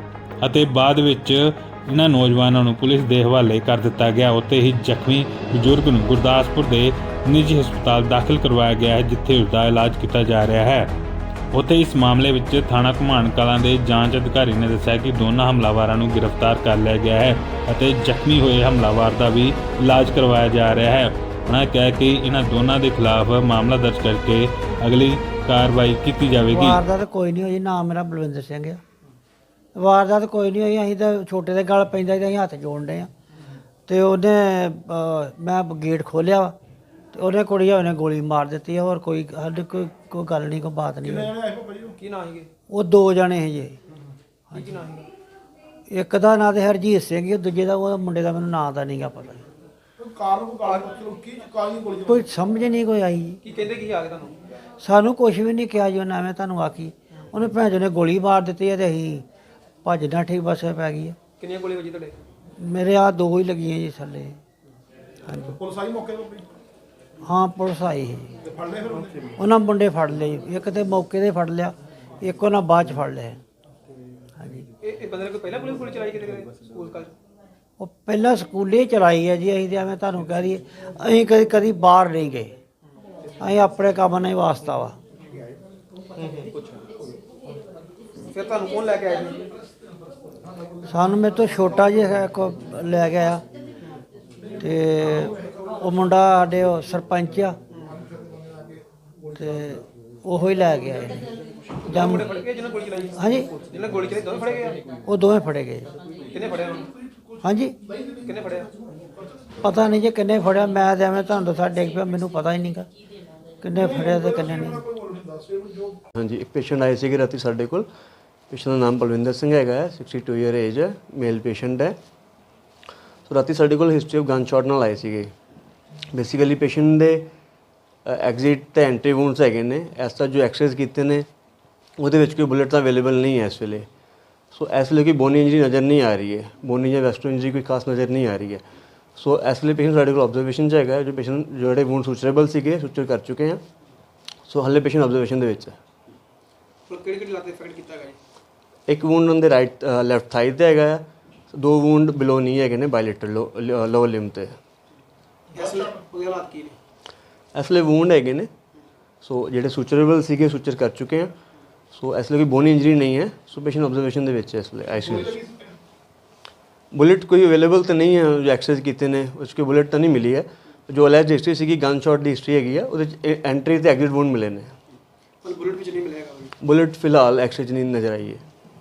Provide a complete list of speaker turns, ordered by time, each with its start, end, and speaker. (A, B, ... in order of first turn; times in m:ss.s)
0:00.4-0:10.9 A
0:11.5-0:26.8 A
0:26.5-0:28.8 B
0:29.8-0:33.1 B
0:33.9-0:36.6 B
0:37.1-0:41.3 B
0:41.1-0:42.0 C
0:42.0-0:42.5 D
0:42.7-0:43.8 B
0:44.5-0:45.1 D
0:45.9-0:49.4 B
0:50.0-0:52.2 C
0:52.0-0:53.4 B
0:53.4-0:54.4 D
0:54.8-0:59.2 B
0:59.8-1:01.2 B
1:01.4-1:02.2 D
1:02.6-1:04.4 B
1:05.3-1:05.6 B
1:05.6-1:06.5 C
1:07.2-1:08.4 B
1:08.4-1:09.4 C
1:09.4-1:13.4 B
1:14.4-1:14.7 B
1:14.8-1:17.1 D
1:17.8-1:22.5 B
1:23.4-1:25.0 B
1:26.2-1:27.1 D
1:28.3-1:29.5 D
1:30.9-1:33.4 B
1:34.6-1:37.6 B
1:38.0-1:38.8 C
1:39.4-1:41.2 B
1:41.8-1:45.0 D
1:41.9-1:42.3 B
1:43.2-1:43.5 B
1:45.1-1:45.9 B
1:46.3-1:46.9 D
1:47.1-1:47.3 C
1:47.4-1:47.8 B
1:47.9-1:48.3 C
1:48.2-1:48.7 D
1:49.6-1:52.9 B
1:53.6-1:54.8 B
1:53.8-1:56.0 C
1:56.2-1:57.9 E
1:58.5-2:02.0 E
2:03.3-2:05.3 E
2:06.1-2:07.3 E
2:08.0-2:11.3 E
2:12.0-2:13.9 E
2:14.5-2:18.6 E
2:19.2-2:23.6 E
2:24.5-2:25.8 E
2:26.9-2:28.2 D
2:28.9-2:34.6 E
2:35.5-2:36.8 D
2:35.6-2:35.9 C
2:37.5-2:38.5 E
2:39.2-2:41.3 E
2:41.9-2:45.4 E
2:45.0-2:45.7 C
2:46.9-2:54.7 E
2:55.4-2:56.6 D
2:56.6-2:58.4 E